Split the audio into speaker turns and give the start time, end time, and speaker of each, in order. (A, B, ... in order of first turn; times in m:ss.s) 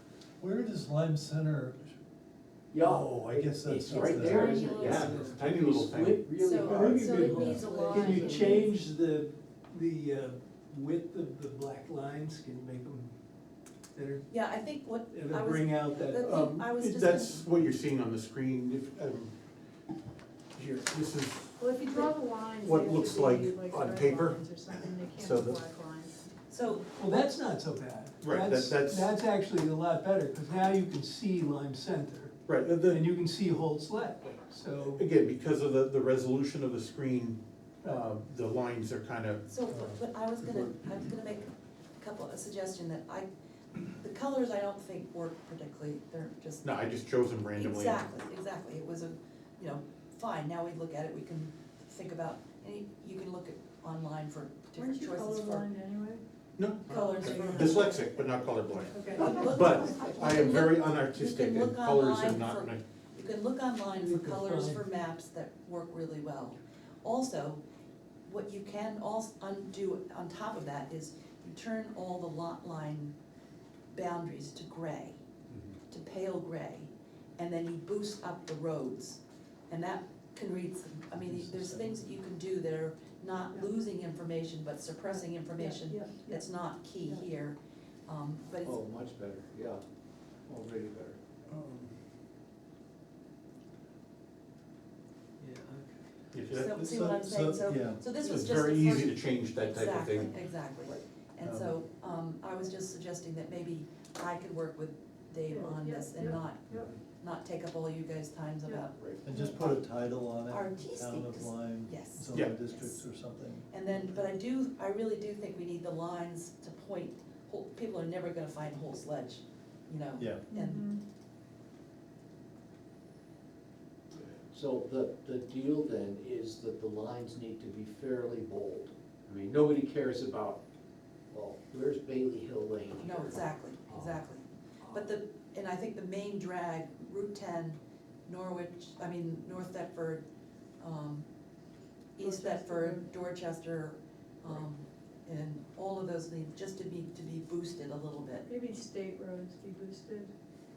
0:00.4-0:02.0 A
0:02.7-0:08.6 B
0:02.8-0:04.6 A
0:04.0-0:04.9 C
0:04.4-0:05.0 D
0:04.7-0:06.2 E
0:04.9-0:05.7 F
0:06.4-0:08.7 D
0:06.6-0:13.1 F
0:13.9-0:14.2 F
0:14.3-0:17.4 D
0:15.1-0:16.4 F
0:16.2-0:19.3 E
0:20.5-0:25.6 E
0:21.6-0:26.8 C
0:26.5-0:26.9 D
0:27.0-0:35.0 F
0:28.2-0:29.1 E
0:32.5-0:33.0 E
0:34.9-0:39.4 E
0:39.5-0:43.3 D
0:39.7-0:40.0 A
0:43.8-0:46.7 D
0:46.6-0:48.1 E
0:47.5-0:55.7 D
0:54.7-0:56.2 C
0:56.6-1:02.8 E
0:56.9-0:58.2 D
0:57.1-0:57.9 C
0:58.9-0:59.6 C
0:59.0-1:07.6 D
1:03.9-1:04.8 F
1:08.2-1:13.1 D
1:13.9-1:15.2 D
1:15.5-1:15.8 B
1:15.9-1:28.8 D
1:21.2-1:22.0 A
1:25.1-1:26.5 C
1:28.6-1:29.8 B
1:30.5-1:31.2 B
1:35.4-1:36.1 F
1:36.3-1:36.7 E
1:36.6-1:49.8 D
1:36.7-1:38.0 A
1:38.2-1:40.3 E
1:41.4-1:41.7 E
1:45.5-1:46.9 C
1:48.6-1:49.6 C
1:49.2-1:53.7 A
1:50.5-2:00.9 D
2:00.2-2:00.4 A
2:00.5-2:01.0 C
2:04.5-2:10.6 B
2:11.3-2:14.2 B
2:13.0-2:20.2 D
2:14.8-2:15.1 B
2:20.8-2:21.3 D
2:22.2-2:28.5 D
2:22.2-2:23.1 C
2:28.4-2:30.3 C